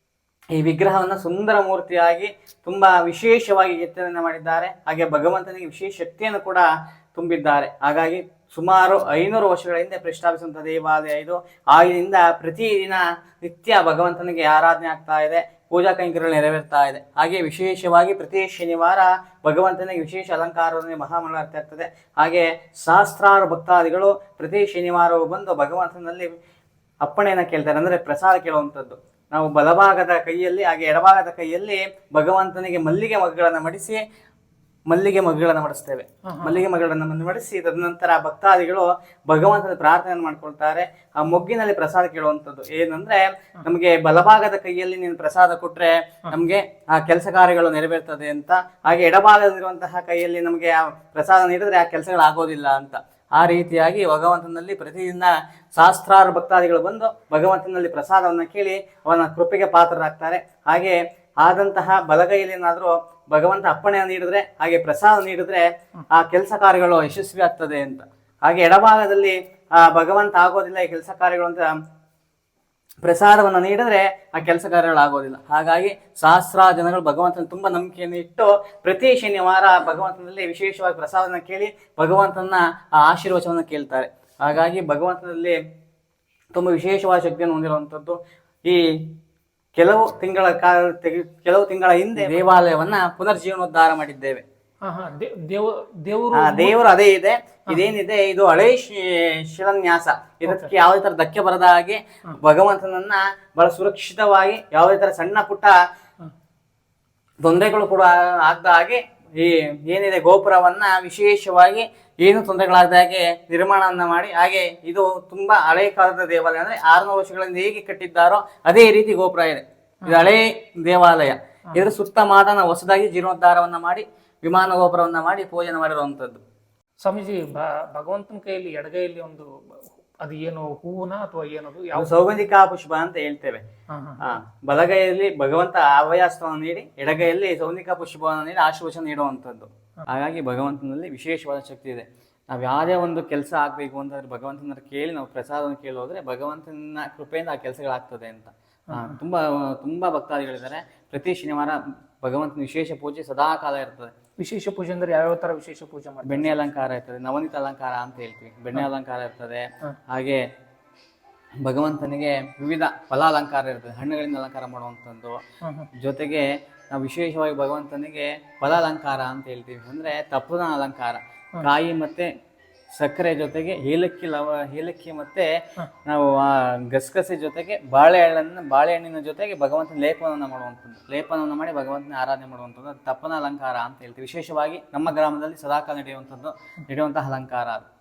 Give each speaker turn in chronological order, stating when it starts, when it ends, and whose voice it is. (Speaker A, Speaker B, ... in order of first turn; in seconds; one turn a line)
Speaker A: 0.5-26.3
Speaker A: 27.0-34.0
Speaker A: 34.9-71.7
Speaker B: 36.3-36.6
Speaker A: 73.0-85.6
Speaker A: 86.5-89.2
Speaker A: 89.8-94.4
Speaker B: 94.8-96.8
Speaker A: 96.3-105.8
Speaker B: 100.4-100.7
Speaker A: 107.4-126.4
Speaker B: 120.1-120.3
Speaker B: 127.0-132.1
Speaker A: 131.9-133.6
Speaker B: 133.9-134.4
Speaker A: 134.2-154.1
Speaker B: 148.9-149.2
Speaker B: 154.4-156.7
Speaker A: 156.2-160.4
Speaker A: 161.6-165.4
Speaker B: 165.6-165.9
Speaker A: 166.0-172.3
Speaker A: 172.9-175.5
Speaker A: 176.1-187.9